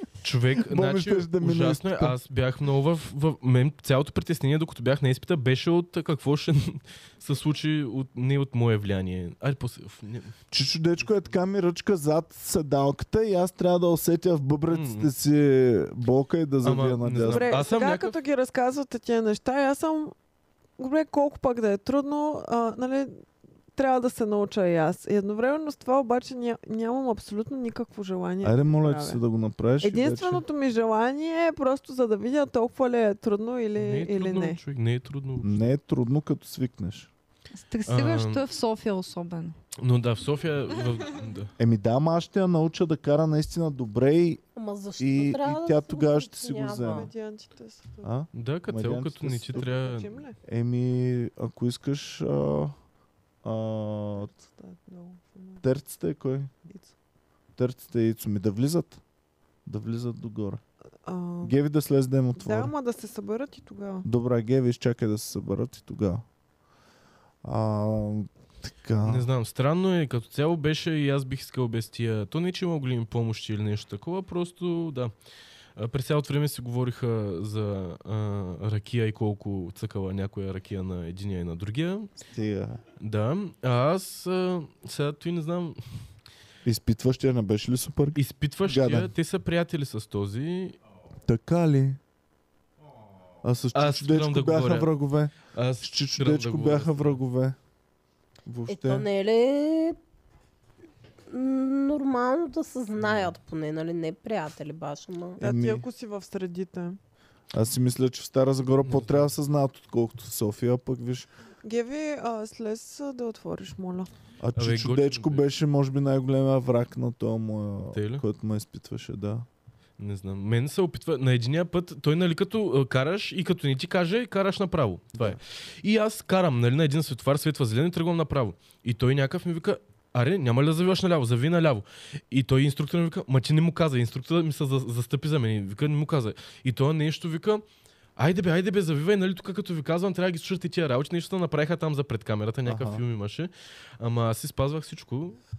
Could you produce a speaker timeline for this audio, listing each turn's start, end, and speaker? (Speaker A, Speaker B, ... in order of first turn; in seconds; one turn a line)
Speaker A: 0.2-10.3
Speaker B: 0.6-2.1
Speaker B: 10.5-17.6
Speaker A: 14.7-15.1
Speaker A: 16.6-18.2
Speaker C: 17.3-20.1
Speaker C: 20.8-29.2
Speaker B: 28.4-30.4
Speaker C: 29.8-34.6
Speaker A: 33.8-35.6
Speaker B: 35.4-37.1
Speaker D: 37.5-39.5
Speaker A: 37.9-38.5
Speaker A: 39.8-41.5
Speaker B: 41.6-44.4
Speaker E: 44.5-47.1
Speaker B: 45.0-47.1
Speaker C: 46.8-48.1
Speaker B: 48.0-49.7
Speaker A: 48.3-50.2
Speaker C: 49.6-50.4
Speaker B: 50.4-52.7
Speaker B: 53.4-54.3
Speaker C: 54.2-55.6
Speaker B: 55.6-56.5
Speaker B: 57.6-59.0
Speaker B: 59.6-60.6
Speaker C: 61.0-61.5
Speaker B: 61.4-62.7
Speaker C: 62.4-64.0
Speaker B: 64.0-66.2
Speaker B: 67.4-69.3
Speaker A: 69.0-75.1
Speaker A: 75.8-82.1
Speaker B: 82.3-82.8
Speaker A: 83.0-85.8
Speaker B: 86.6-89.1
Speaker A: 88.1-90.8
Speaker B: 91.3-92.0
Speaker B: 93.4-97.6
Speaker A: 93.7-94.9
Speaker A: 95.4-97.2
Speaker B: 98.5-99.0
Speaker E: 98.7-100.0
Speaker E: 101.3-105.4
Speaker A: 103.0-103.3
Speaker B: 105.4-105.8
Speaker C: 105.4-107.0
Speaker B: 107.5-111.3
Speaker A: 108.8-109.3
Speaker C: 111.6-114.1
Speaker B: 114.4-119.5
Speaker A: 114.5-115.5
Speaker A: 117.9-118.2
Speaker A: 120.0-137.6
Speaker A: 138.2-145.4
Speaker B: 142.6-143.0